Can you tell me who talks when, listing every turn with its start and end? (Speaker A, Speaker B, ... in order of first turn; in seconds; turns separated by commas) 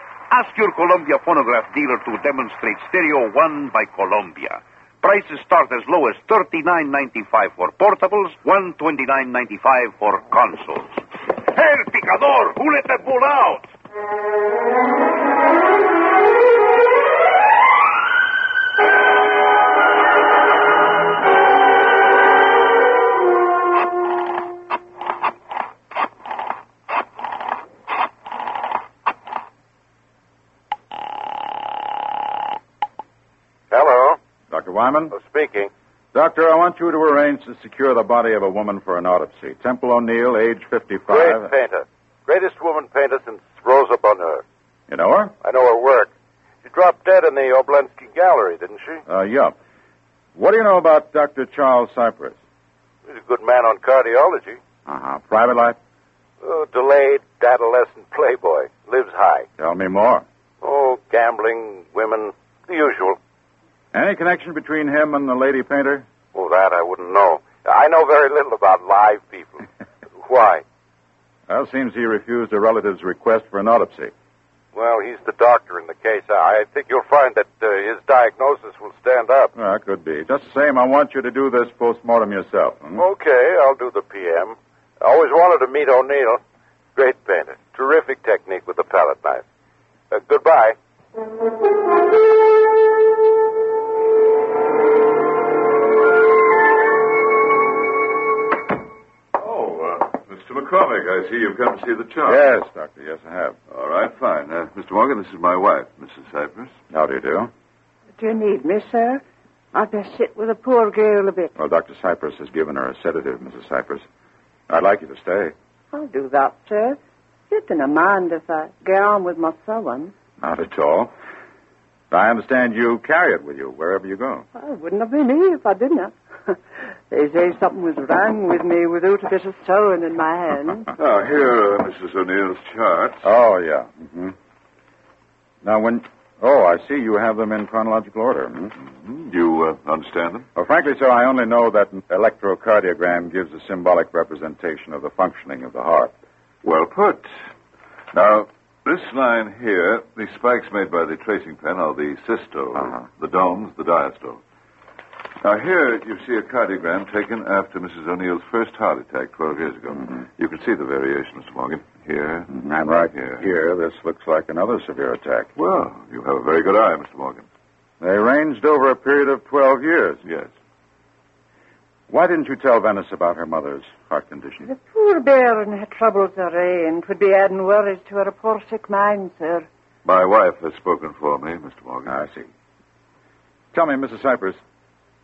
Speaker A: 0.3-13.7, Speaker B: 33.7-34.2, Speaker C: 34.5-35.1, Speaker B: 35.1-35.7, Speaker C: 36.1-41.5, Speaker B: 41.1-44.4, Speaker C: 44.9-45.4, Speaker B: 45.4-46.1, Speaker B: 46.6-49.0, Speaker C: 49.1-49.5, Speaker C: 50.4-52.4, Speaker B: 53.1-54.6, Speaker C: 54.9-55.8, Speaker B: 56.4-59.5, Speaker C: 59.6-60.2, Speaker B: 60.6-63.2, Speaker C: 63.9-66.1, Speaker B: 66.3-69.7, Speaker B: 70.2-70.7, Speaker C: 71.5-74.1, Speaker B: 74.7-79.5, Speaker C: 79.5-83.0, Speaker B: 83.0-86.4, Speaker B: 87.0-89.4, Speaker B: 90.1-90.8, Speaker D: 99.4-102.5, Speaker C: 102.2-103.6, Speaker D: 103.7-106.7, Speaker C: 106.9-107.5, Speaker E: 108.2-109.2, Speaker E: 109.7-111.5, Speaker C: 111.6-114.0, Speaker C: 114.7-115.5, Speaker E: 115.9-117.0, Speaker E: 117.5-120.1, Speaker C: 120.4-121.1, Speaker C: 122.1-124.5, Speaker E: 124.9-126.1, Speaker E: 127.1-130.8, Speaker D: 131.0-133.3, Speaker C: 133.2-134.3, Speaker C: 135.6-138.7, Speaker D: 138.9-140.5, Speaker C: 140.6-146.1, Speaker D: 146.6-147.3, Speaker D: 148.1-154.4, Speaker D: 155.4-162.5, Speaker C: 162.5-165.5, Speaker D: 163.2-163.4, Speaker D: 165.6-167.5, Speaker C: 168.0-170.2, Speaker D: 170.3-170.5, Speaker C: 172.1-174.7, Speaker E: 174.8-179.6, Speaker D: 180.1-182.1, Speaker C: 182.1-182.5, Speaker C: 183.7-184.6